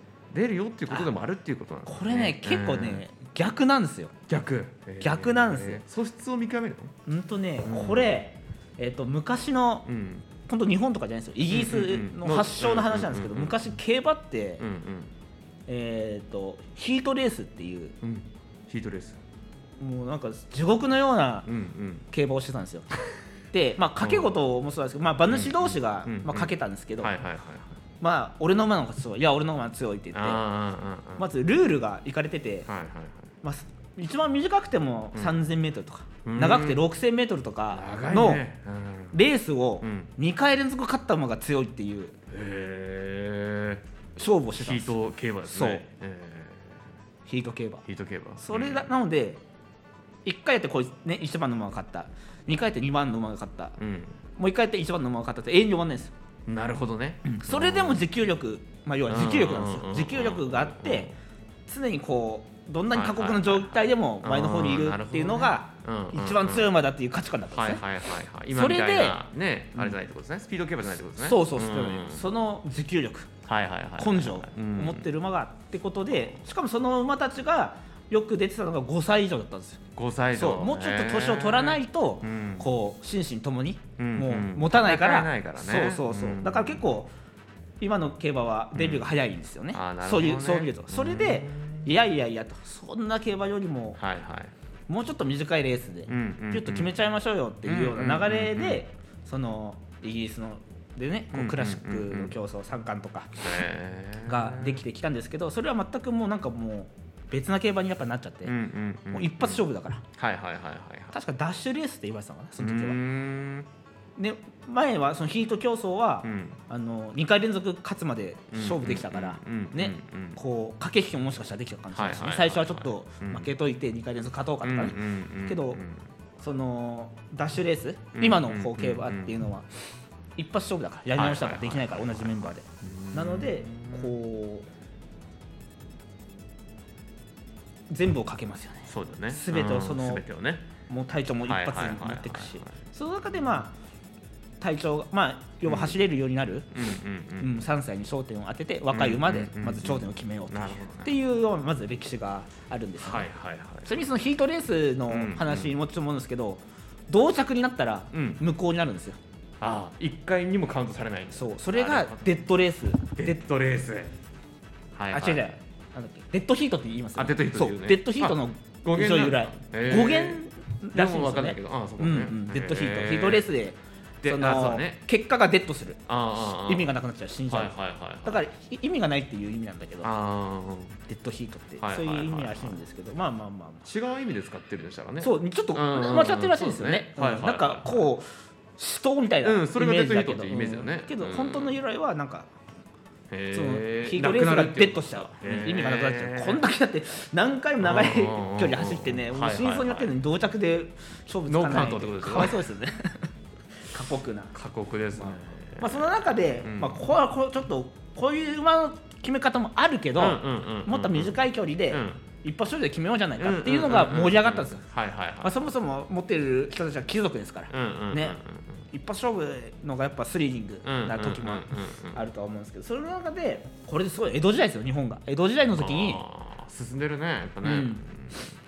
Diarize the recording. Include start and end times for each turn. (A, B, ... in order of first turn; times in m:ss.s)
0:00.3-0:03.0 A
0:01.8-0:04.1 B
0:04.3-0:06.9 A
0:05.0-0:05.8 B
0:07.1-0:09.9 B
0:07.6-0:08.1 A
0:09.8-0:10.3 A
0:10.4-0:14.6 B
0:11.5-0:13.6 A
0:14.6-0:15.1 A
0:15.7-0:18.0 B
0:18.0-0:19.2 A
0:19.8-0:21.5 B
0:21.4-0:22.1 A
0:22.1-0:22.9 B
0:23.5-0:27.1 B
0:24.0-0:24.4 A
0:25.3-0:27.8 A
0:28.0-0:30.4 B
0:30.1-0:31.3 A
0:31.2-0:32.7 B
0:32.7-0:33.3 A
0:33.4-0:38.4 B
0:35.1-0:35.5 A
0:36.2-0:36.8 A
0:37.7-0:39.2 A
0:39.1-0:42.2 B
0:39.8-0:40.1 A
0:42.3-0:43.8 A
0:44.2-0:45.8 B
0:44.5-0:46.8 A
0:47.2-0:47.8 B
0:47.8-0:48.9 A
0:48.4-0:49.4 B
0:50.2-0:53.8 B
0:53.8-0:54.2 A
0:54.4-0:56.1 B
0:56.5-0:58.1 A
0:57.2-1:01.2 B
0:59.1-1:01.1 A
1:01.7-1:07.8 B
1:02.9-1:06.7 A
1:07.5-1:12.3 A
1:08.5-1:09.2 B
1:11.2-1:13.3 B
1:13.5-1:15.1 A
1:14.0-1:19.8 B
1:20.0-1:22.7 A
1:20.3-1:27.1 B
1:24.0-1:26.9 A
1:27.8-1:34.0 B
1:28.7-1:29.1 A
1:29.7-1:32.0 A
1:34.0-1:34.5 A
1:34.9-1:43.6 B
1:36.1-1:37.0 A
1:37.6-1:38.8 A
1:41.3-1:42.4 A
1:43.4-1:44.8 A
1:44.2-1:48.5 B
1:48.5-1:51.2 A
1:49.1-1:50.0 B
1:51.1-1:53.0 B
1:52.6-1:53.7 A
1:54.2-2:05.8 B
1:56.2-1:56.6 A
1:58.5-2:00.4 A
2:01.9-2:03.5 A
2:04.6-2:06.0 A
2:06.4-2:09.7 B
2:08.2-2:09.4 A
2:10.4-2:14.7 B
2:11.2-2:14.2 A
2:17.9-2:20.2 B
2:18.9-2:20.7 A
2:20.9-2:23.7 B
2:21.5-2:22.8 A
2:24.6-2:26.7 B
2:25.6-2:26.0 A
2:26.7-2:27.6 A
2:27.4-2:33.3 B
2:28.9-2:31.2 A
2:33.0-2:34.1 A
2:33.8-2:39.2 B
2:35.1-2:35.8 A
2:38.1-2:38.4 A
2:39.6-2:42.4 A
2:41.3-2:43.4 B
2:43.1-2:44.1 A
2:45.0-2:45.5 A
2:45.1-3:00.1 B
2:47.2-2:53.5 A
2:54.2-2:55.0 A
2:56.1-2:56.9 A
2:57.5-2:58.4 A
3:00.0-3:01.0 A
3:01.0-3:03.8 B
3:01.8-3:02.8 A
3:03.8-3:08.0 A
3:05.2-3:12.5 B
3:09.4-3:11.8 A
3:13.3-3:16.6 A
3:13.5-3:23.3 B
3:17.8-3:20.2 A
3:21.5-3:22.7 A
3:23.9-3:24.5 B
3:24.5-3:27.2 A
3:25.1-3:34.8 B
3:30.2-3:32.2 A
3:33.4-3:35.7 A
3:35.4-3:46.2 B
3:37.7-3:38.8 A
3:40.8-3:42.2 A
3:45.7-3:48.5 A
3:47.6-3:48.0 B